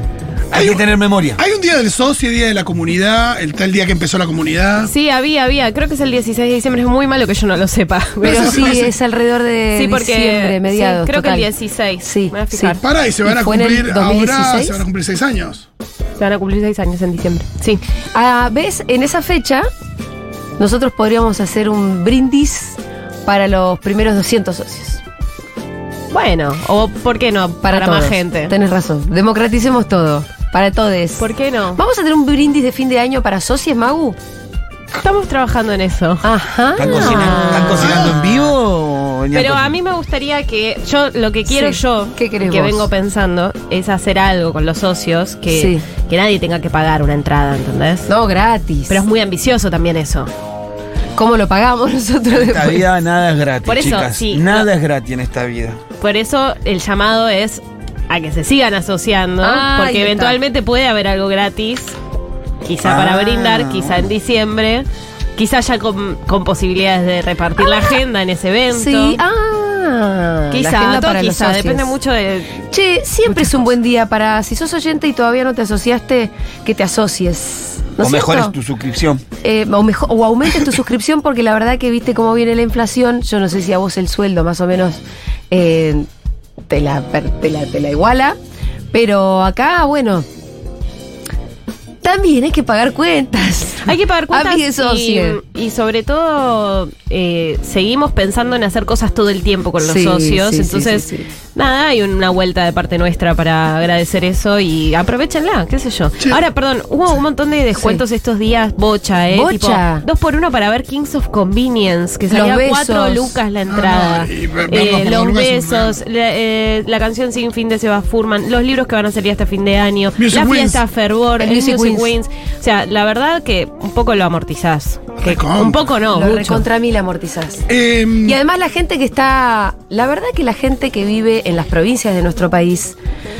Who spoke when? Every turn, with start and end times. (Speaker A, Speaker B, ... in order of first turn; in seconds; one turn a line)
Speaker A: 0.5-1.4
Speaker B: 0.5-4.9
Speaker C: 4.8-8.8
Speaker B: 8.2-8.9
Speaker D: 8.2-11.5
Speaker C: 9.7-12.8
Speaker D: 12.0-14.8
Speaker B: 12.8-15.7
Speaker C: 16.2-17.8
Speaker D: 18.1-19.7
Speaker D: 20.6-25.0
Speaker C: 26.1-28.5
Speaker D: 27.6-34.2
Speaker C: 31.2-31.8
Speaker C: 35.0-36.2
Speaker D: 36.2-38.1
Speaker A: 36.8-39.8
Speaker C: 36.9-37.8
Speaker B: 37.8-38.2
Speaker C: 39.3-48.1
Speaker D: 41.5-42.9
Speaker D: 45.5-45.8
Speaker D: 48.1-49.0
Speaker C: 48.9-50.3
Speaker D: 51.1-52.9
Speaker A: 52.3-55.8
Speaker C: 53.6-54.7
Speaker C: 56.0-61.9
Speaker D: 59.4-60.4
Speaker C: 62.6-69.2
Speaker A: 62.8-64.1
Speaker D: 67.6-68.0
Speaker D: 68.7-71.9
Speaker C: 70.5-72.6
Speaker D: 72.7-78.5
Speaker A: 78.0-79.2
Speaker D: 79.4-85.0
Speaker D: 85.5-86.1
Speaker D: 86.7-88.4
Speaker D: 88.9-90.2
Speaker D: 92.0-95.4
Speaker C: 93.8-126.6
Speaker D: 99.8-101.3
Speaker D: 107.8-108.0
Speaker D: 109.3-110.0
Speaker D: 112.3-113.4
Speaker B: 113.7-116.0
Speaker B: 120.2-120.8
Speaker D: 121.4-122.1
Speaker B: 125.2-125.9
Speaker D: 126.1-127.7
Speaker B: 127.7-128.4
Speaker D: 128.2-132.9